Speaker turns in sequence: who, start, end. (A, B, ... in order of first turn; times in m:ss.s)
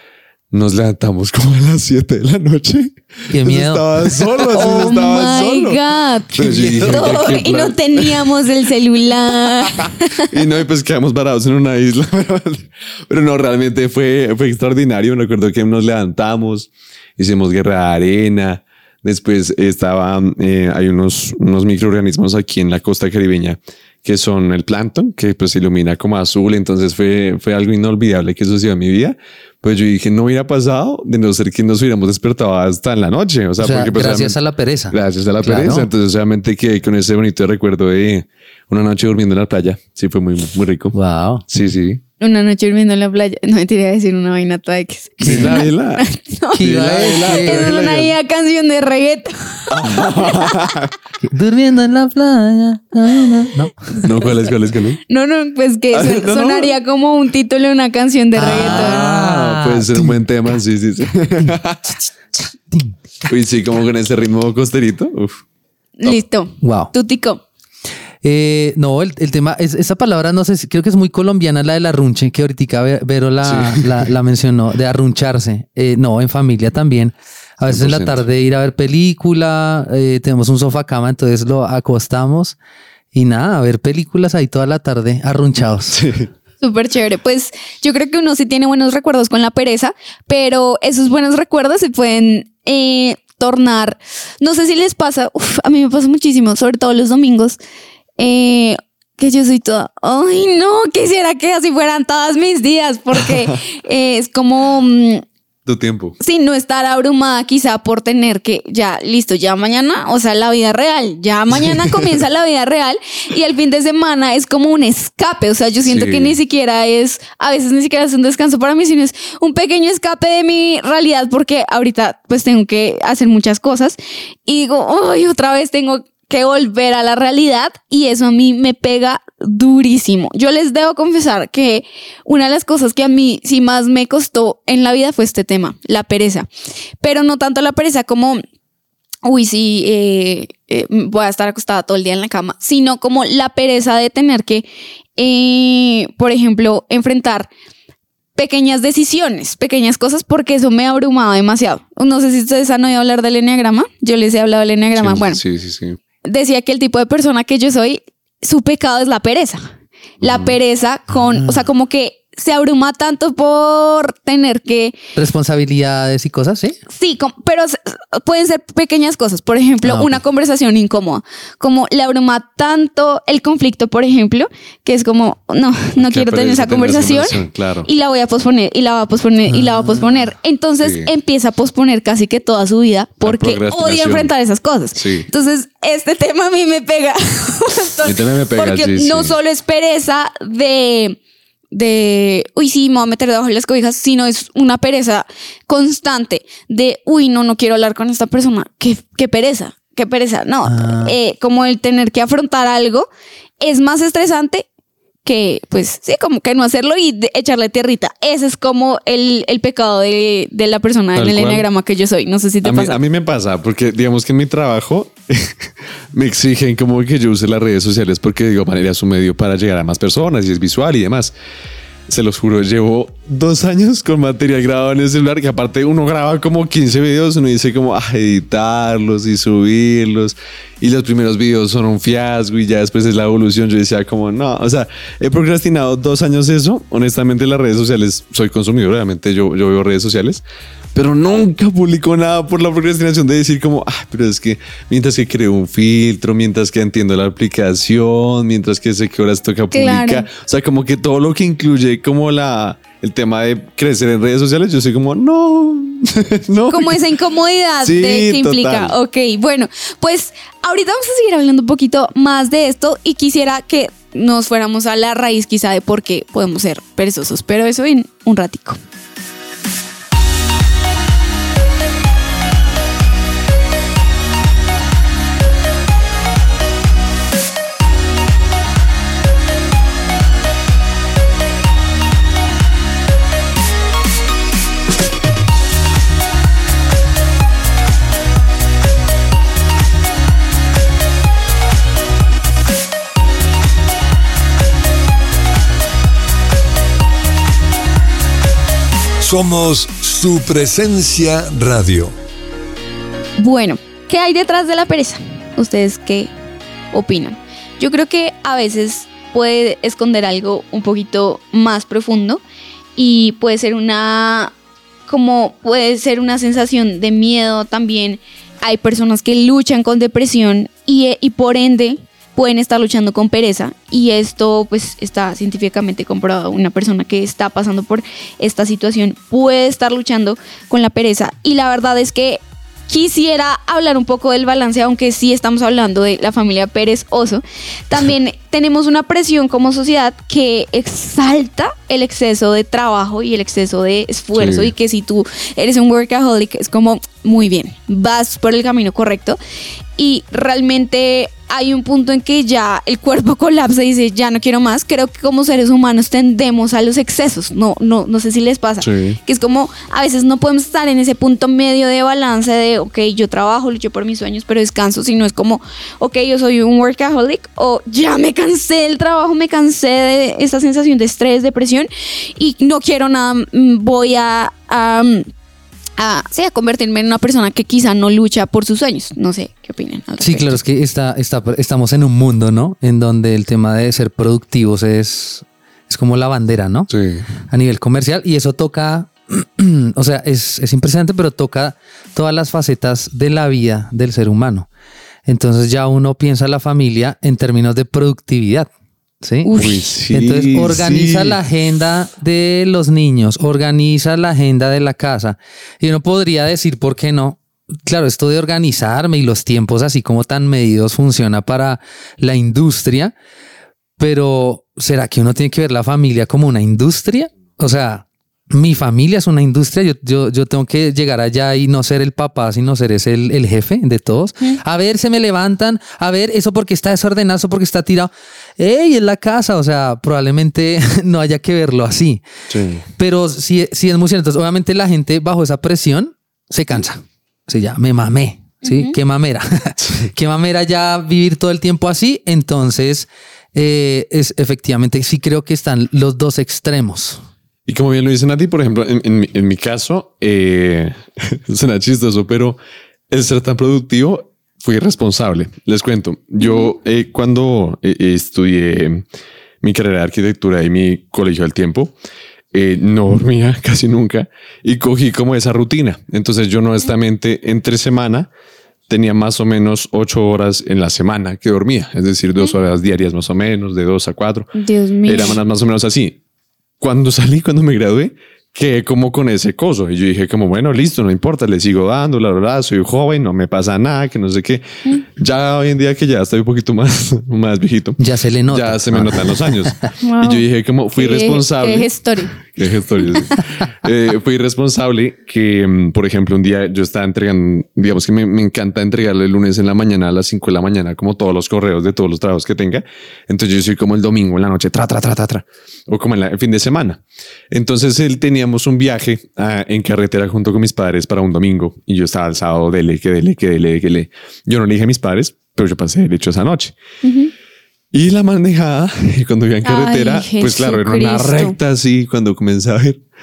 0:00.5-0:05.8 A
0:03.3-0:05.2 B
0:04.5-0:10.3 C
0:06.3-0:08.4 A
0:06.4-0:07.5 B
0:10.3-0:34.4 A
0:33.6-0:35.9 B
0:34.9-0:41.0 A
0:40.9-0:41.4 B
0:41.5-0:42.0 A
0:42.2-0:50.6 C
0:45.2-0:45.7 B
0:45.2-0:46.0 A
0:46.5-0:47.7 B
0:46.6-0:48.1 A
0:49.7-0:50.9 A
0:51.2-0:54.1 B
0:54.0-0:55.0 A
0:55.1-0:59.0 C
0:55.9-0:56.7 A
0:58.4-1:00.2 B
0:58.4-1:02.0 A
1:03.3-1:05.4 A
1:06.0-1:07.4 C
1:06.6-1:06.9 B
1:08.2-1:22.6 B
1:13.4-1:14.0 A
1:17.7-1:18.2 A
1:23.1-1:26.0 B
1:25.9-1:26.3 A
1:26.6-1:37.6 C
1:38.2-1:45.2 C
1:45.7-1:46.2 A
1:46.2-2:16.5 C
1:55.9-1:56.4 A
2:17.0-2:18.4 C
2:19.2-2:27.5 C
2:28.4-2:35.4 C
2:35.0-2:36.0 A
2:36.2-2:39.7 C
2:40.2-2:40.6 A
2:40.2-2:45.0 C
2:41.4-2:41.6 B
2:45.2-2:46.8 B
2:46.9-3:11.2 C
2:49.8-2:50.2 B
2:56.0-2:57.9 A
2:59.5-3:00.2 B
3:00.8-3:01.1 A
3:03.2-3:04.3 A
3:05.0-3:05.3 A
3:08.0-3:09.4 A
3:11.7-3:23.1 C
3:20.7-3:21.2 B
3:23.6-3:24.7 C
3:25.2-3:33.0 C
3:31.2-3:31.7 A
3:32.6-3:41.3 A
3:42.1-4:00.4 A
4:01.0-4:17.0 A
4:09.7-4:10.3 C
4:16.7-4:28.8 C
4:17.8-4:19.0 A
4:59.2-5:02.1 D
5:03.4-5:06.3 C
5:06.9-5:12.4 C
5:13.0-5:14.5 C
5:15.1-5:49.4 C
5:44.4-5:44.7 A
5:50.0-6:15.3 C
5:58.8-5:59.2 A
6:16.0-6:20.6 C
6:20.2-6:26.9 B
6:26.9-6:27.3 A
6:27.4-6:34.7 B
6:35.3-6:38.7 B
6:39.2-6:39.6 B
6:39.4-6:39.8 C
6:39.6-6:41.4 A
6:40.1-6:53.1 B
6:54.0-7:12.2 B
7:12.5-7:12.9 A
7:13.0-7:27.2 B
7:18.6-7:19.0 C
7:19.8-7:20.1 A
7:27.7-7:32.6 A
7:33.1-7:39.0 A
7:36.4-7:36.7 C
7:39.6-7:41.9 A
7:42.5-7:48.3 A
7:48.9-7:54.5 A
7:54.6-7:55.4 C
7:55.0-7:56.2 A
7:56.8-8:04.6 A
8:05.2-8:36.8 A
8:08.0-8:09.9 B
8:10.0-8:10.4 C
8:11.0-8:12.4 C
8:37.0-8:37.3 C
8:37.9-8:43.0 A
8:39.6-8:41.6 C